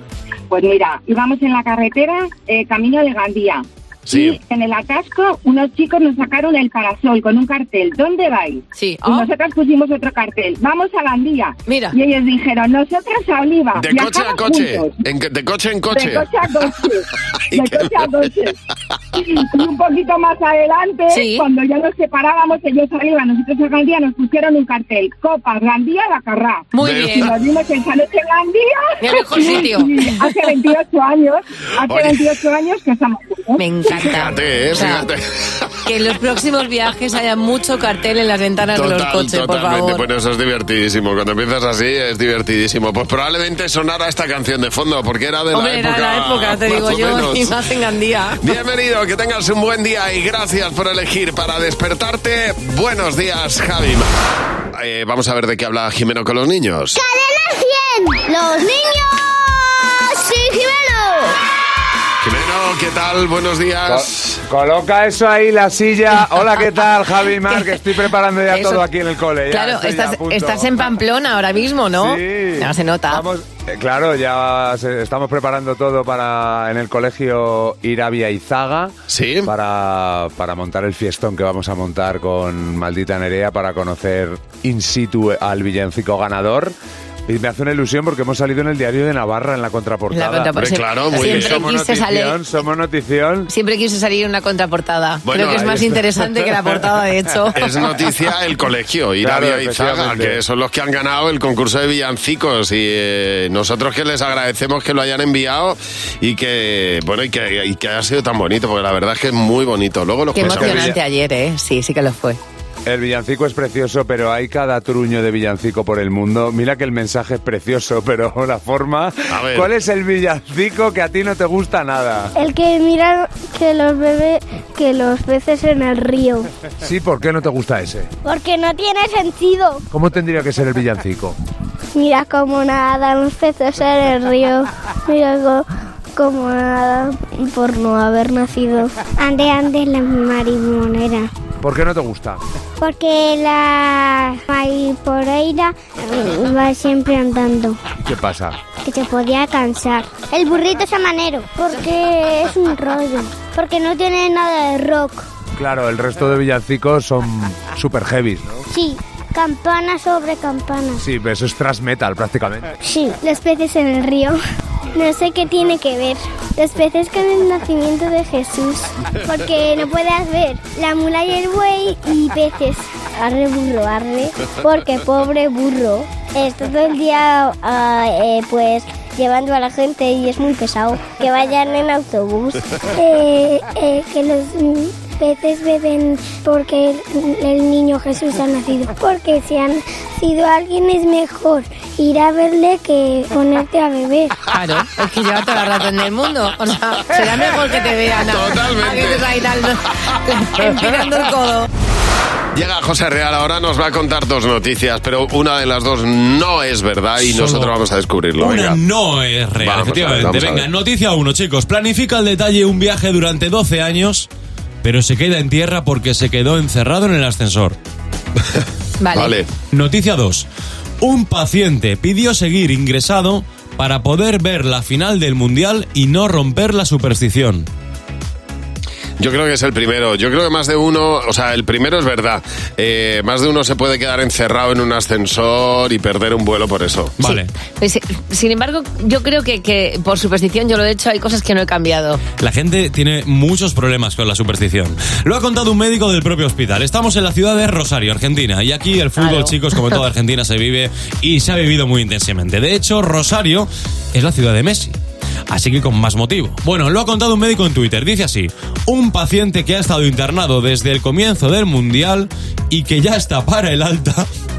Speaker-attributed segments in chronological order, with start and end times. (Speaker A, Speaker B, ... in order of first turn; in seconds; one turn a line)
Speaker A: 0.5-14.9
Speaker B: 4.1-4.4
Speaker C: 8.8-9.3
Speaker C: 11.7-12.0
Speaker B: 13.8-16.3
Speaker A: 15.9-18.6
Speaker B: 17.6-17.9
Speaker A: 19.1-33.6
Speaker C: 21.1-21.4
Speaker C: 26.7-27.3
Speaker B: 26.8-27.3
Speaker C: 29.0-30.3
Speaker B: 31.9-32.2
Speaker C: 33.6-35.1
Speaker B: 34.0-35.7
Speaker C: 35.9-40.0
Speaker B: 38.8-47.6
Speaker C: 45.5-48.4
Speaker B: 48.4-54.1
Speaker B: 54.7-57.0
Speaker D: 57.0-61.4
Speaker B: 62.2-64.4
Speaker E: 63.9-70.9
Speaker C: 68.5-68.9
Speaker C: 69.5-73.2
Speaker E: 72.0-78.9
Speaker B: 79.1-79.5
Speaker E: 79.5-86.7
Speaker E: 87.3-93.5
Speaker C: 90.1-92.4
Speaker B: 90.6-91.7
Speaker C: 93.5-97.6
Speaker B: 95.2-95.8
Speaker B: 97.5-110.9
Speaker E: 99.2-100.4
Speaker C: 110.3-112.4
Speaker E: 110.4-111.0
Speaker E: 112.9-122.3
Speaker B: 119.3-119.7
Speaker D: 122.4-126.5
Speaker E: 126.8-128.1
Speaker D: 128.2-129.8
Speaker E: 129.9-131.4
Speaker D: 131.9-135.7
Speaker D: 136.2-141.3
Speaker E: 141.6-142.4
Speaker D: 142.8-147.8
Speaker E: 148.0-148.6
Speaker D: 148.8-155.3
Speaker E: 155.6-158.6
Speaker D: 158.7-161.0
Speaker E: 161.0-162.8
Speaker D: 162.8-164.4
Speaker D: 164.9-194.3
Speaker C: 194.5-201.7
Speaker B: 198.2-199.3
Speaker B: 202.5-208.8
Speaker F: 207.2-207.7
Speaker F: 208.4-214.3
Speaker B: 209.6-210.7
Speaker F: 214.8-217.8
Speaker C: 219.0-219.3
Speaker B: 219.1-219.5
Speaker F: 219.7-220.5
Speaker F: 221.0-227.7
Speaker B: 229.2-237.1
Speaker F: 237.2-237.5
Speaker C: 237.2-242.2
Speaker F: 242.4-255.0
Speaker C: 249.2-249.9
Speaker F: 255.5-264.3